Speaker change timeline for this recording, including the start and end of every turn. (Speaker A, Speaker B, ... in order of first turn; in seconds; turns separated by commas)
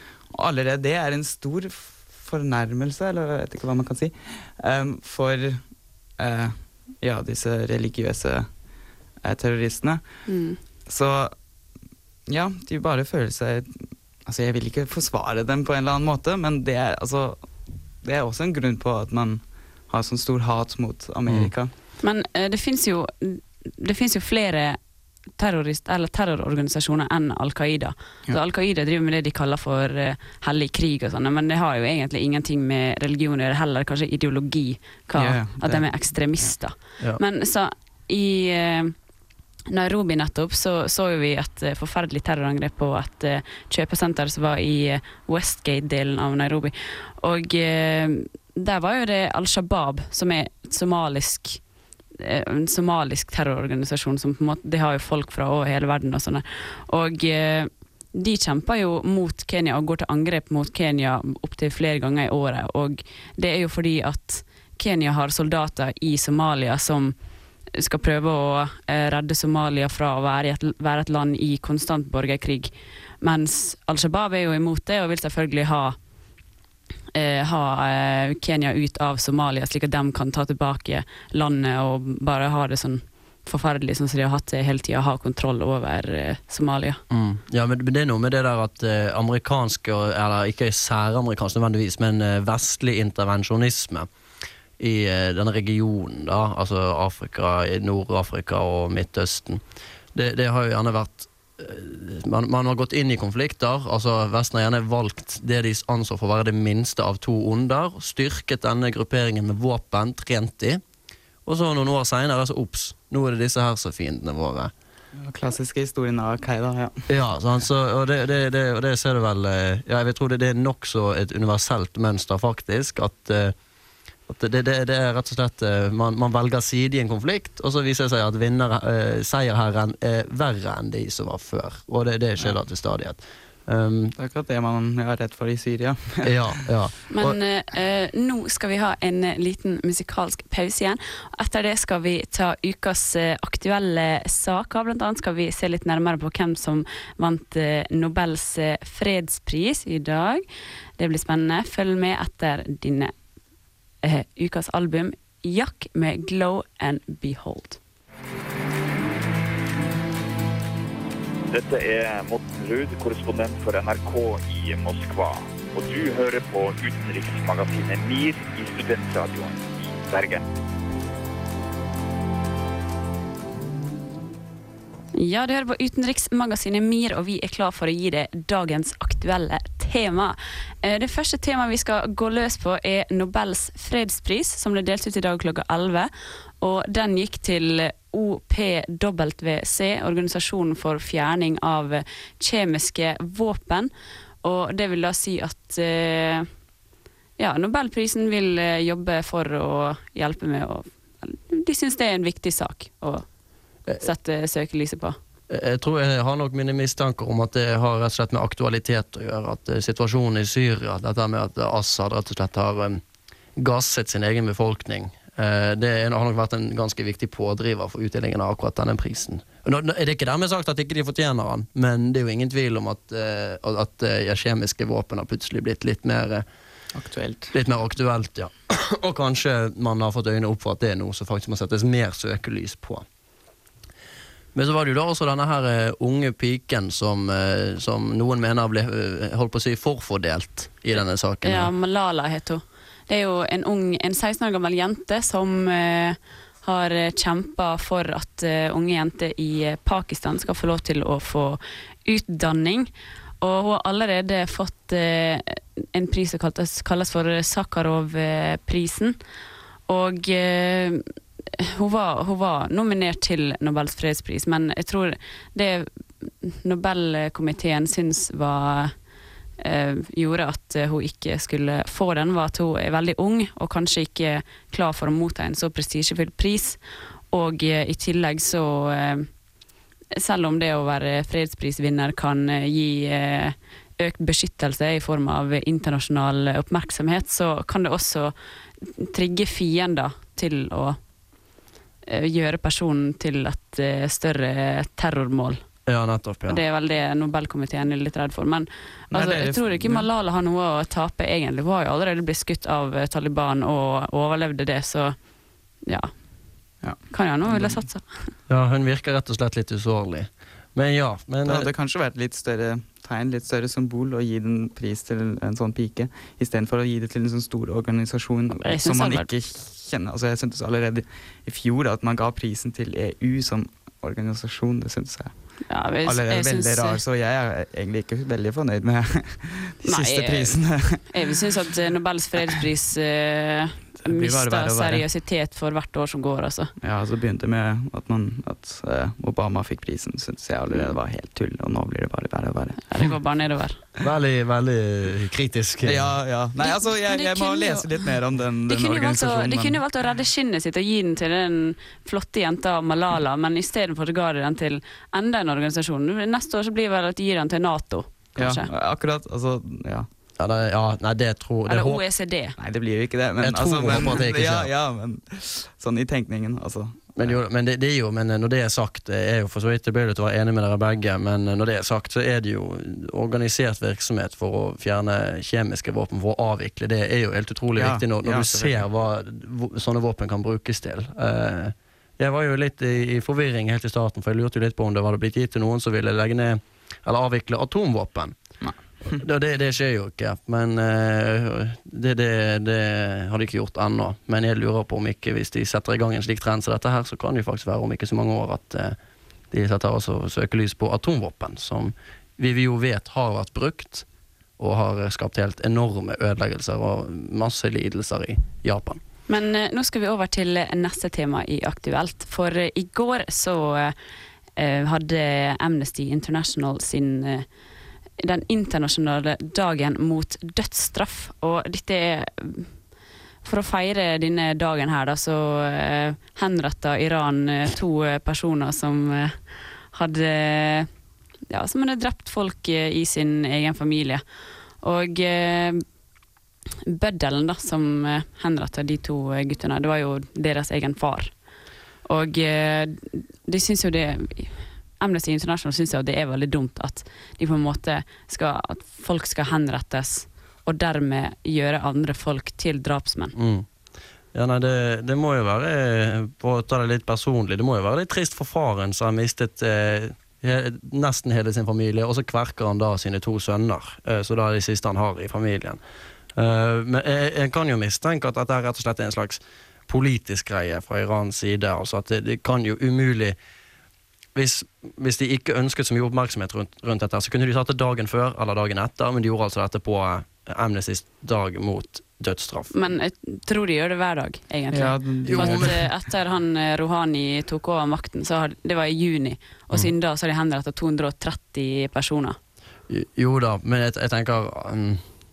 Speaker A: 0.3-5.6, Speaker A: 6.2-8.5, Speaker A: 9.2-10.0, Speaker B: 10.3-10.6, Speaker A: 10.9-11.3, Speaker A: 12.3-17.4, Speaker A: 18.0-21.7, Speaker C: 21.3-21.5, Speaker B: 22.0-24.8, Speaker B: 25.4-39.0, Speaker A: 35.2-35.9, Speaker B: 39.7-51.6, Speaker B: 52.2-67.2, Speaker B: 67.8-76.0, Speaker B: 77.2-87.0, Speaker C: 87.1-94.1, Speaker C: 94.8-99.6, Speaker C: 100.1-110.8, Speaker C: 111.5-114.7, Speaker A: 115.2-117.0, Speaker C: 117.1-123.5, Speaker C: 124.3-134.2, Speaker A: 134.2-136.3, Speaker C: 136.2-137.4, Speaker B: 137.1-150.4, Speaker B: 151.0-153.1, Speaker B: 154.0-157.8, Speaker D: 161.5-170.4, Speaker B: 175.2-193.9, Speaker B: 194.4-196.5, Speaker B: 197.4-203.3, Speaker B: 204.0-205.2, Speaker C: 205.5-213.0, Speaker C: 213.6-226.4, Speaker A: 226.9-227.5, Speaker C: 227.5-233.1, Speaker C: 234.6-241.7, Speaker B: 241.4-252.9, Speaker B: 253.4-259.2, Speaker B: 259.9-261.0, Speaker B: 261.6-268.9, Speaker B: 269.6-276.8, Speaker B: 277.3-279.3, Speaker B: 280.2-291.0, Speaker B: 292.1-295.6, Speaker C: 295.9-296.6, Speaker B: 296.5-305.2, Speaker A: 299.1-300.1, Speaker B: 305.9-306.1, Speaker A: 306.8-307.8, Speaker B: 307.1-308.3, Speaker C: 308.5-311.7, Speaker A: 311.5-325.3, Speaker B: 318.6-319.3, Speaker B: 325.7-327.0, Speaker A: 326.0-331.1, Speaker B: 329.9-336.7, Speaker A: 334.0-335.1, Speaker A: 336.8-342.9, Speaker B: 342.9-343.8, Speaker C: 344.0-346.1, Speaker A: 345.8-349.8, Speaker B: 346.6-347.9, Speaker B: 348.7-358.7, Speaker A: 358.4-360.1, Speaker C: 360.4-362.0, Speaker B: 361.7-362.6, Speaker A: 362.6-367.4, Speaker C: 363.4-364.7, Speaker C: 367.2-388.4, Speaker A: 377.8-378.9, Speaker A: 388.6-389.2, Speaker C: 389.1-399.0, Speaker C: 399.5-404.1, Speaker C: 404.6-409.0, Speaker B: 409.3-413.9, Speaker B: 414.6-417.5, Speaker B: 418.2-422.7, Speaker B: 423.4-429.4, Speaker B: 429.9-430.9, Speaker B: 431.5-434.2, Speaker B: 434.8-435.8, Speaker B: 436.9-441.3, Speaker B: 442.1-453.4, Speaker C: 453.4-453.7, Speaker C: 454.3-465.8, Speaker C: 466.4-473.4, Speaker C: 474.4-482.7, Speaker B: 482.7-492.4, Speaker A: 484.7-485.8, Speaker C: 485.2-485.8, Speaker C: 492.9-495.0